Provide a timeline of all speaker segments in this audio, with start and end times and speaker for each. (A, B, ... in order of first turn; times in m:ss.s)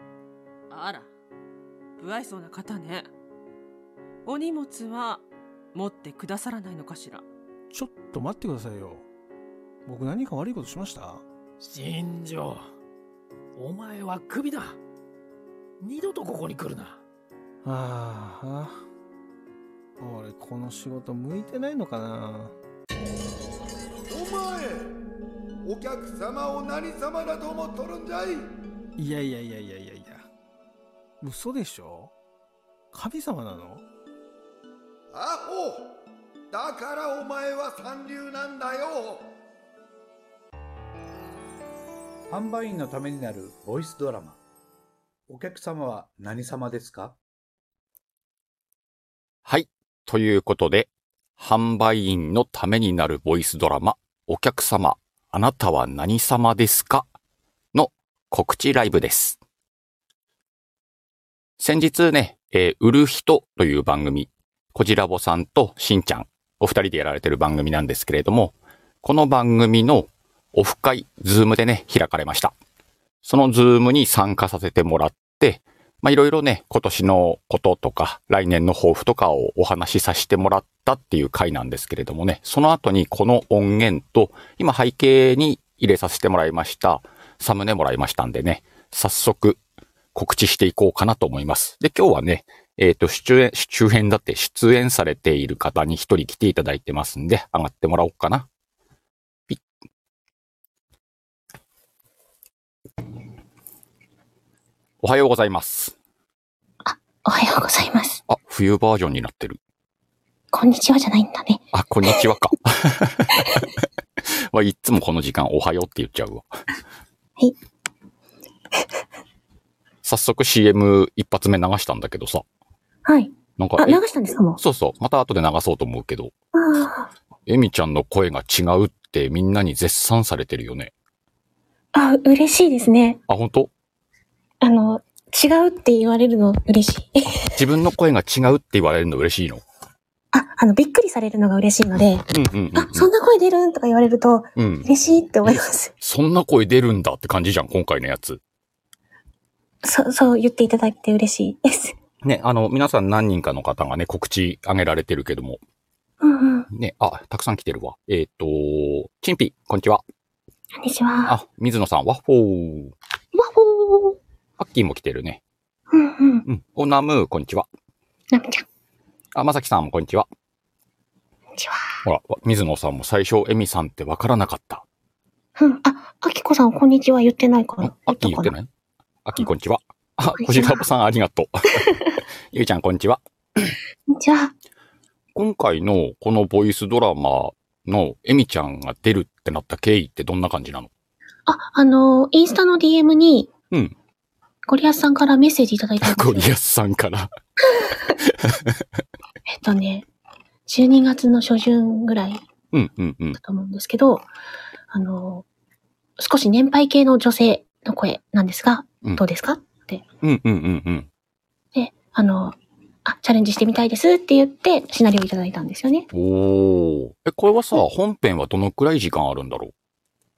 0:00.7-0:01.1 A
0:02.0-0:03.1 A
0:04.2-0:07.2 A
0:07.7-0:09.0 B
0:09.8-0:11.2 B
0:11.6-0:12.6 C
0:13.6-0:14.8 C
0:15.8-0:17.0 C
0:17.6-0:18.8 B
0:20.0-0:22.5 B
0:24.1-0:24.9 D
0:25.6-0:28.4 D
0:29.0-0:30.2 B
0:31.2-0:32.1 B
0:32.9-0:33.8 B
0:35.1-0:35.9 D
0:36.5-0:39.3 D
0:42.3-0:44.4 E
0:45.3-0:47.2 E
0:49.4-0:57.1 F
0:57.7-0:59.4 F
1:01.6-1:12.5 F
1:13.2-1:29.6 F
1:30.1-1:38.5 F
1:45.0-1:45.9 F
1:46.8-1:48.2 G
1:48.3-1:49.6 F
1:50.5-1:52.2 G
1:51.7-1:53.7 F
1:53.4-1:53.6 G
1:54.2-1:56.6 F
2:00.0-2:02.4 F
2:03.0-2:04.6 G
2:03.6-2:04.0 F
2:04.6-2:06.3 F
2:06.5-2:07.1 G
2:07.4-2:10.9 F
2:11.9-2:13.2 G
2:13.3-2:13.7 F
2:14.6-2:17.6 G
2:17.5-2:19.6 F
2:20.3-2:25.9 G
2:22.3-2:23.1 F
2:24.6-2:24.9 F
2:25.4-2:28.4 F
2:29.8-2:31.9 G
2:32.2-2:35.6 F
2:36.2-2:36.7 G
2:36.7-2:40.0 F
2:40.8-2:41.4 G
2:41.2-2:42.9 F
2:43.3-2:44.2 G
2:44.6-2:45.4 F
2:45.9-2:46.4 G
2:46.4-2:47.7 F
2:48.3-2:48.6 G
2:49.3-2:50.3 F
2:51.6-2:52.0 G
2:52.0-2:54.8 F
2:55.6-2:58.5 G
2:57.8-2:58.7 F
2:59.2-3:01.9 F
3:00.4-3:00.8 G
3:01.7-3:02.2 G
3:02.5-3:03.7 F
3:04.1-3:04.5 G
3:05.3-3:10.9 F
3:11.5-3:13.5 G
3:14.7-3:16.5 G
3:16.0-3:17.3 F
3:17.8-3:18.1 G
3:18.2-3:18.8 F
3:19.5-3:20.0 G
3:20.7-3:22.4 G
3:22.7-3:23.4 F
3:23.4-3:24.3 G
3:24.9-3:25.4 G
3:26.2-3:30.0 G
3:30.2-3:31.1 F
3:31.7-3:36.1 G
3:36.1-3:39.7 F